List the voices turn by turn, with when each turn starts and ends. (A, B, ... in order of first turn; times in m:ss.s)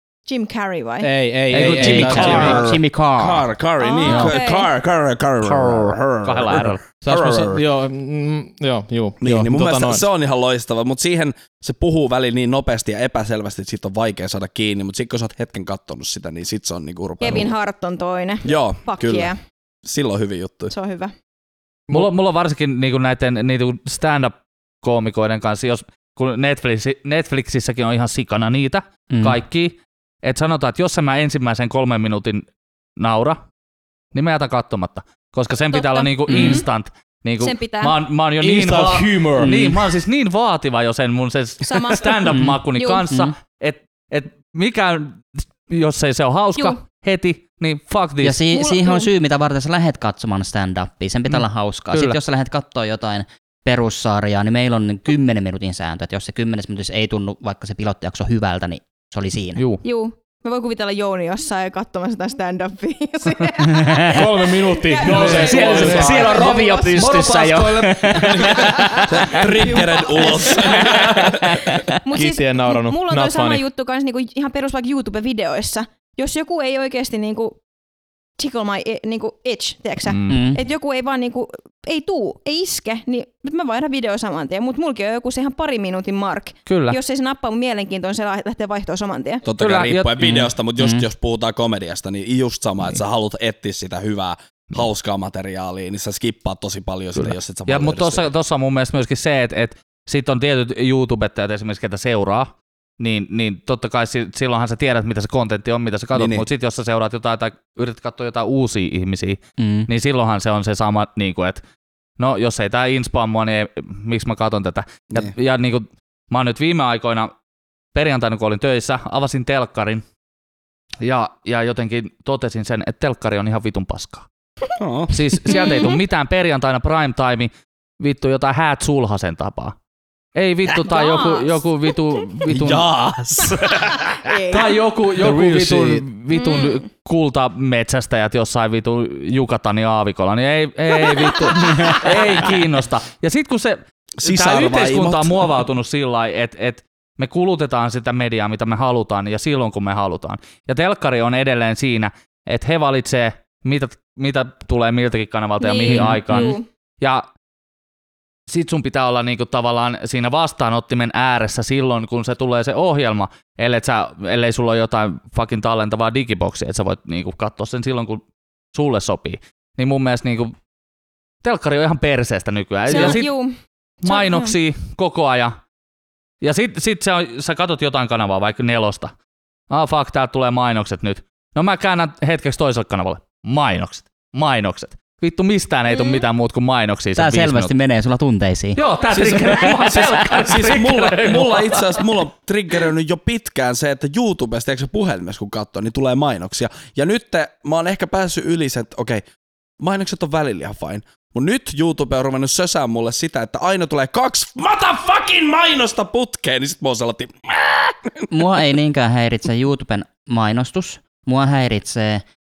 0:00.3-0:01.1 A
0:01.0-0:02.6 B
0:01.5-0:02.6 C
0:01.6-0:03.5 D
0:01.6-0:07.6 E
0:03.8-0:04.7 A
0:04.0-0:04.4 C
0:05.4-0:06.8 C
0:07.0-0:10.1 B
0:09.2-0:17.5 E
0:17.2-0:19.4 A
0:18.4-0:19.3 E
0:19.8-0:20.7 E
0:20.7-0:21.1 A
0:21.9-0:32.5 C
0:29.1-0:29.4 D
0:33.0-0:33.4 C
0:34.1-0:48.4 C
0:35.7-0:36.7 A
0:36.3-0:36.6 D
0:37.4-0:37.9 A
0:38.4-0:39.6 B
0:39.4-0:39.9 D
0:41.6-0:43.0 A
0:42.3-0:43.4 D
0:48.2-0:59.6 D
0:48.5-0:49.1 A
0:51.3-0:52.2 C
0:59.6-0:59.8 C
0:59.8-1:07.4 A
1:03.6-1:04.2 D
1:04.1-1:06.4 B
1:05.0-1:09.5 C
1:05.0-1:09.4 D
1:08.7-1:09.0 A
1:09.1-1:11.6 E
1:09.6-1:11.0 A
1:10.4-1:11.3 C
1:10.9-1:11.8 D
1:12.0-1:17.6 A
1:12.1-1:13.6 B
1:18.4-1:29.4 A
1:20.1-1:20.4 C
1:20.3-1:20.6 D
1:26.7-1:27.0 C
1:29.4-1:38.3 E
1:29.6-1:30.5 C
1:30.2-1:31.1 D
1:37.2-1:51.6 C
1:46.1-1:46.5 E
1:49.6-1:49.9 D
1:52.2-1:57.3 C
1:57.9-2:00.0 C
2:01.0-2:04.3 C
2:04.8-2:05.4 E
2:05.1-2:09.8 C
2:05.5-2:06.0 A
2:10.4-2:12.9 C
2:10.9-2:12.4 A
2:12.5-2:14.2 E
2:14.2-2:14.7 A
2:14.5-2:37.3 C
2:15.2-2:16.0 B
2:16.3-2:16.8 A
2:21.0-2:22.2 A
2:24.2-2:25.6 E
2:35.6-2:36.7 A
2:35.9-2:36.2 D
2:38.5-2:50.5 C
2:51.4-2:53.3 C
2:52.9-2:54.5 A
2:54.0-2:55.6 C
2:56.4-2:59.1 C
2:59.7-3:07.7 C
3:05.9-3:06.2 A
3:07.2-3:08.8 D
3:08.8-3:12.1 C
3:09.1-3:19.2 E
3:19.8-3:28.3 E
3:28.3-3:32.2 D